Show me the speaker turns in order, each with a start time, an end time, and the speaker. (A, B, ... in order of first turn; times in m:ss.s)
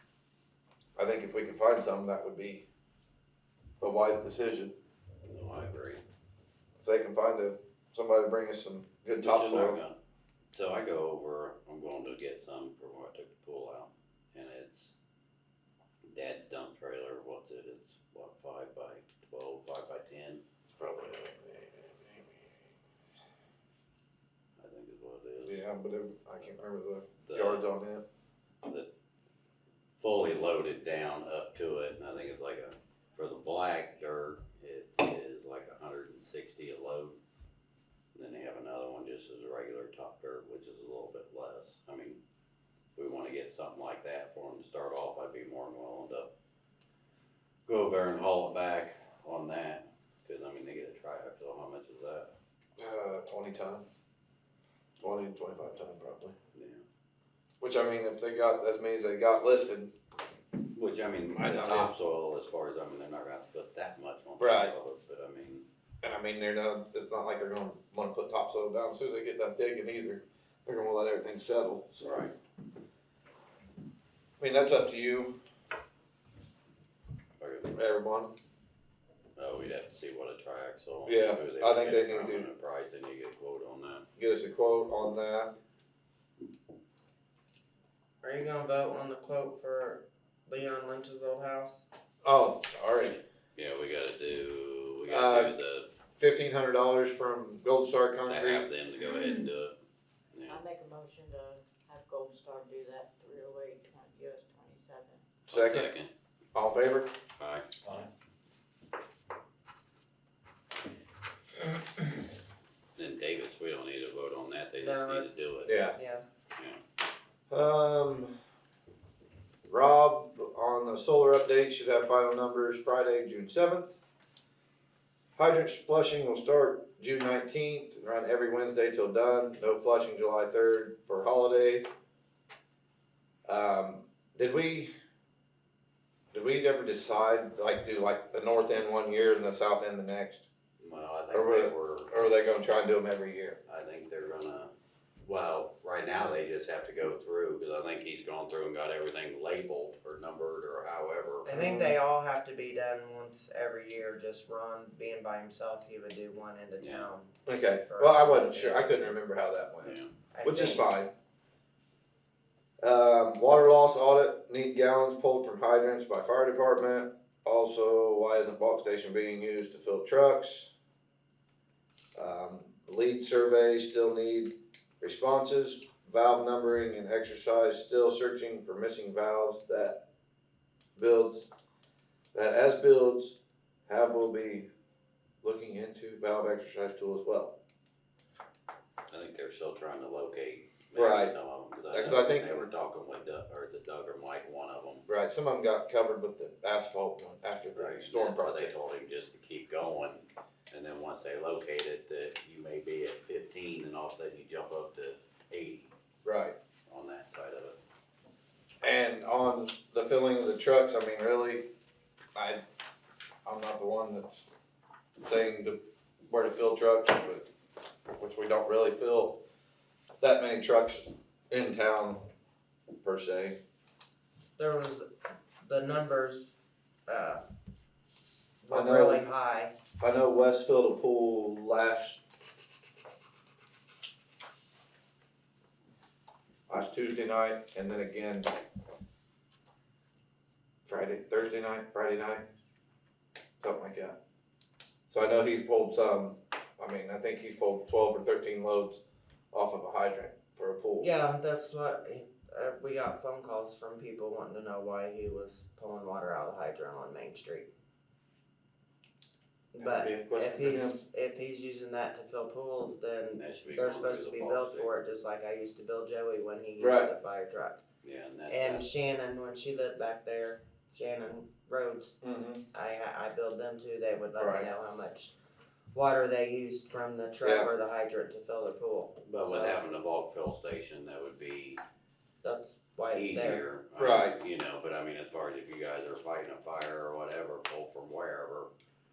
0:01.0-0:02.6 A
0:03.8-0:04.7 A
0:05.2-0:06.0 B
0:06.8-0:09.8 A
0:09.2-0:10.0 B
0:10.5-0:15.0 B
0:16.1-0:20.4 B
0:20.7-0:22.4 A
0:24.6-0:25.6 B
0:25.5-0:28.0 A
0:27.2-0:27.6 B
0:30.0-0:37.2 B
0:38.2-0:42.2 B
0:43.0-0:46.3 B
0:47.7-0:52.3 B
0:52.8-0:53.8 A
0:55.0-0:56.4 A
0:56.5-0:56.8 B
0:57.6-0:59.9 A
1:00.8-1:05.6 B
1:01.4-1:01.9 A
1:04.4-1:04.7 A
1:06.0-1:12.1 A
1:12.0-1:12.3 B
1:14.4-1:15.3 A
1:17.4-1:17.7 B
1:17.7-1:18.3 A
1:19.4-1:24.0 B
1:21.1-1:22.5 A
1:24.2-1:25.5 A
1:28.2-1:31.8 C
1:32.2-1:33.2 A
1:33.6-1:35.9 B
1:35.1-1:35.6 A
1:36.2-1:38.7 A
1:38.3-1:39.8 B
1:40.5-1:45.2 D
1:45.5-1:46.1 B
1:45.5-1:45.9 A
1:46.6-1:47.1 A
1:47.4-1:47.7 B
1:53.0-1:55.8 B
1:54.8-1:56.2 C
1:55.6-1:56.0 A
1:57.5-1:58.3 A
1:59.7-2:04.0 A
2:05.4-2:11.9 A
2:13.5-2:14.9 A
2:16.3-2:20.4 A
2:20.8-2:22.1 B
2:21.3-2:23.6 A
2:23.7-2:24.7 B
2:25.2-2:31.5 B
2:31.4-2:39.2 C
2:31.5-2:32.0 A
2:36.8-2:37.1 B
2:37.5-2:41.1 A
2:39.8-2:40.1 B
2:40.3-2:40.9 C
2:42.8-2:50.7 A
2:52.2-3:00.0 A
3:01.0-3:01.5 A
3:02.3-3:03.4 A
3:03.9-3:04.7 A
3:05.4-3:07.6 A
3:09.1-3:15.0 B
3:11.0-3:11.3 A
3:11.9-3:12.6 A
3:15.1-3:18.7 A
3:17.8-3:25.9 B
3:26.2-3:26.6 A
3:26.9-3:27.8 B
3:28.8-3:31.7 A
3:32.4-3:32.6 A
3:33.4-3:34.5 A
3:35.2-3:37.5 A
3:38.2-3:39.4 A
3:40.2-3:42.2 A
3:43.0-3:43.6 A
3:44.6-3:45.1 C
3:45.6-3:47.4 C
3:48.6-3:49.7 C
3:48.7-3:49.2 A
3:50.0-3:52.2 A
3:56.7-3:58.5 A
4:00.9-4:02.4 A
4:03.6-4:04.2 A
4:05.1-4:09.0 A
4:09.5-4:11.1 A
4:11.0-4:17.7 C
4:19.7-4:27.8 C
4:19.8-4:21.0 A
4:23.4-4:24.9 B
4:26.8-4:27.1 A
4:28.0-4:28.9 B
4:28.5-4:32.2 C
4:32.2-4:32.6 A
4:32.7-4:35.3 C
4:34.4-4:34.7 A
4:35.9-4:39.8 C
4:37.4-4:37.7 A
4:39.2-4:41.8 B
4:42.4-4:43.6 C
4:43.1-4:48.7 B
4:44.0-4:44.4 A